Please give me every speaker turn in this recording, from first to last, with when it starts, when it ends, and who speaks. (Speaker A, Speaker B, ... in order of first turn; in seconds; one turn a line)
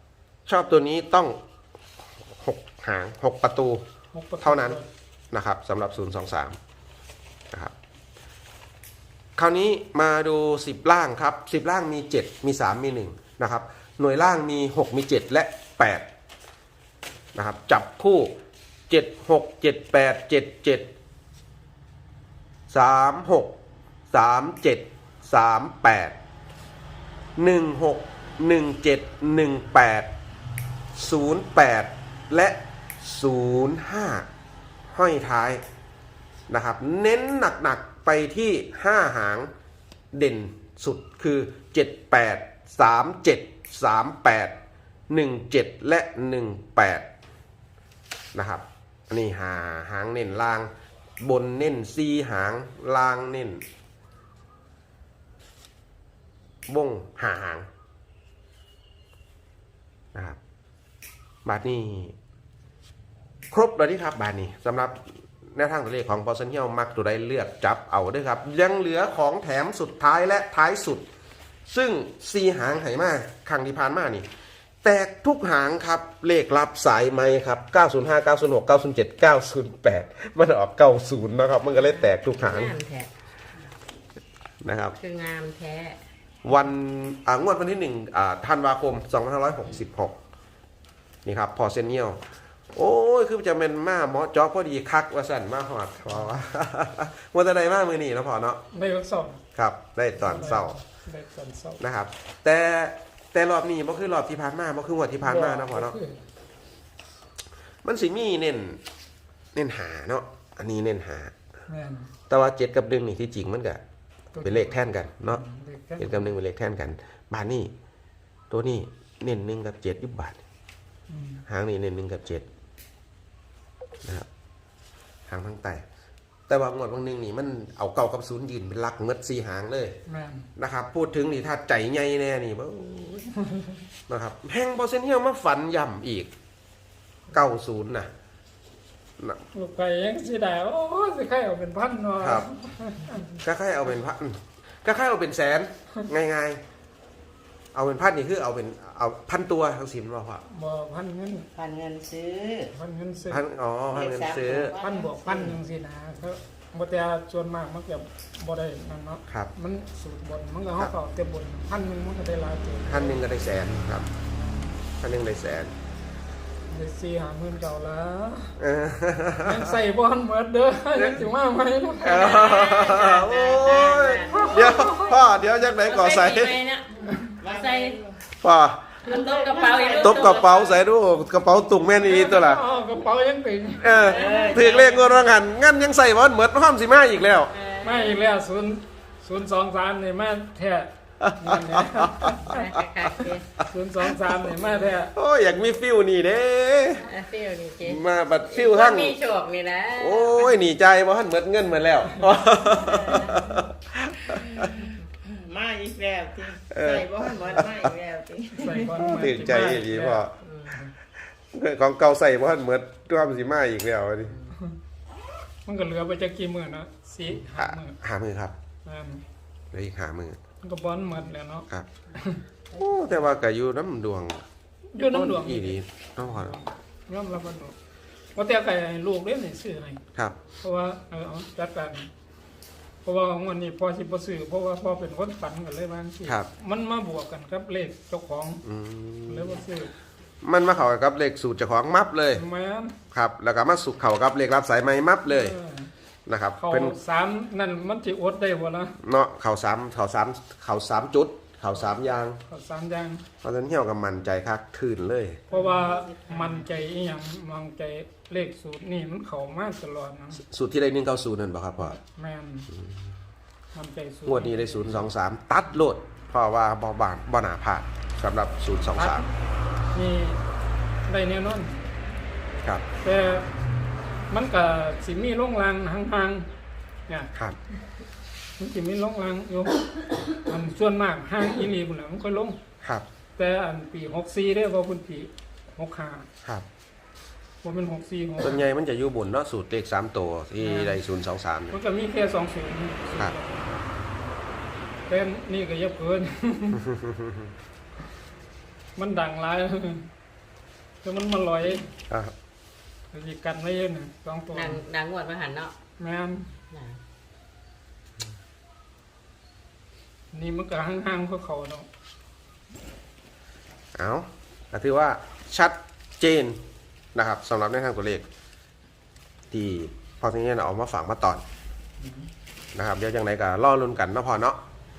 Speaker A: 0.5-1.4
Speaker A: 2.3-3.8
Speaker B: 4.1-4.9
Speaker A: 4.4-4.8
Speaker A: 5.3-6.6
Speaker A: 9.4-16.1
Speaker A: 17.4-18.4
Speaker A: 18.9-20.9
Speaker A: 22.7-23.6
Speaker A: 24.1-26.2
Speaker A: 27.4-30.1
Speaker A: 30.9-34.3
Speaker A: 34.9-35.6
Speaker A: 36.5-39.5
Speaker A: 40.1-44.6
Speaker A: 45.1-47.1
Speaker A: 48.4-50.7
Speaker A: 51.2-53.6
Speaker A: 56.7-57.7
Speaker A: 61.5-62.2
Speaker A: 63.5-71.0
Speaker A: 71.7-74.3
Speaker A: 74.8-82.8
Speaker C: 81.8-83.1
Speaker A: 84.6-85.0
Speaker C: 85.0-86.0
Speaker A: 86.5-90.2
Speaker A: 91.2-92.2
Speaker A: 92.7-98.6
Speaker B: 98.7-99.4
Speaker A: 99.5-100.8
Speaker B: 100.2-101.8
Speaker A: 101.8-106.0
Speaker B: 105.2-106.2
Speaker A: 107.8-108.8
Speaker A: 109.5-111.3
Speaker B: 111.7-112.1
Speaker A: 112.3-113.8
Speaker B: 114.3-116.3
Speaker A: 114.4-115.4
Speaker A: 116.0-117.7
Speaker A: 118.5-120.4
Speaker B: 121.1-121.4
Speaker A: 121.5-122.5
Speaker A: 125.3-125.8
Speaker A: 126.5-129.9
Speaker B: 130.1-130.5
Speaker A: 130.6-133.3
Speaker B: 133.3-133.8
Speaker A: 134.1-136.3
Speaker A: 137.3-138.1
Speaker B: 139.5-143.3
Speaker A: 142.2-142.5
Speaker A: 143.3-146.6
Speaker A: 147.7-150.4
Speaker B: 150.5-151.5
Speaker D: 151.6-152.7
Speaker B: 152.7-153.4
Speaker A: 153.3-154.8
Speaker D: 153.9-155.4
Speaker B: 154.8-163.2
Speaker A: 162.9-164.1
Speaker B: 164.2-164.7
Speaker A: 165.0-165.7
Speaker B: 166.7-168.5
Speaker A: 168.6-169.8
Speaker B: 169.4-172.5
Speaker A: 170.9-171.2
Speaker A: 172.0-176.6
Speaker C: 172.1-174.9
Speaker B: 174.3-175.2
Speaker C: 175.8-178.1
Speaker D: 177.4-178.2
Speaker A: 178.4-179.0
Speaker C: 179.0-180.8
Speaker D: 179.1-180.2
Speaker A: 179.9-182.7
Speaker B: 182.0-184.6
Speaker A: 183.8-187.5
Speaker C: 184.0-184.7
Speaker D: 184.2-185.2
Speaker C: 187.5-188.2
Speaker B: 187.8-192.5
Speaker A: 191.2-193.3
Speaker C: 192.3-193.5
Speaker B: 193.7-195.1
Speaker A: 194.1-194.4
Speaker A: 195.1-197.1
Speaker C: 197.1-200.6
Speaker A: 197.8-199.2
Speaker A: 200.0-204.9
Speaker D: 202.8-203.7
Speaker C: 202.8-203.4
Speaker D: 204.4-204.7
Speaker D: 205.2-209.1
Speaker A: 206.6-208.0
Speaker B: 208.6-210.2
Speaker A: 208.9-210.4
Speaker C: 210.4-210.8
Speaker A: 211.5-214.4
Speaker C: 214.3-214.6
Speaker B: 215.7-218.0
Speaker A: 217.4-218.5
Speaker B: 218.8-219.2
Speaker A: 219.7-220.4
Speaker B: 220.6-222.5
Speaker A: 222.7-224.4
Speaker B: 224.9-227.8
Speaker A: 225.1-226.6
Speaker B: 228.3-230.0
Speaker A: 230.1-230.4
Speaker B: 230.5-232.1
Speaker B: 233.0-238.6
Speaker A: 236.2-236.5
Speaker A: 238.6-239.6
Speaker B: 239.3-239.9
Speaker A: 240.4-242.4
Speaker B: 242.3-243.0
Speaker A: 243.1-245.6
Speaker B: 245.3-245.9
Speaker A: 246.3-247.0
Speaker B: 246.6-249.0
Speaker A: 249.0-252.4
Speaker B: 252.5-253.3
Speaker A: 253.4-255.5
Speaker B: 255.5-260.4
Speaker A: 260.3-262.0
Speaker B: 261.8-262.7
Speaker B: 263.7-265.1
Speaker A: 264.3-269.2
Speaker B: 268.9-269.3
Speaker B: 269.9-270.4
Speaker B: 271.1-271.9
Speaker B: 273.0-273.5
Speaker B: 274.3-276.5
Speaker B: 277.1-277.3
Speaker B: 278.6-282.6
Speaker B: 283.4-286.3
Speaker B: 287.6-288.7
Speaker A: 288.4-291.8
Speaker B: 290.6-291.0
Speaker B: 291.7-293.9
Speaker B: 295.1-296.9
Speaker A: 296.8-297.5
Speaker B: 299.0-300.1
Speaker B: 301.0-301.9
Speaker A: 302.1-302.3
Speaker B: 303.1-304.8
Speaker C: 304.5-305.7
Speaker B: 306.0-306.5
Speaker C: 306.7-307.0
Speaker B: 310.3-311.9
Speaker A: 313.9-316.6
Speaker A: 317.1-318.2
Speaker A: 319.5-321.4
Speaker B: 322.0-322.3
Speaker A: 322.8-324.6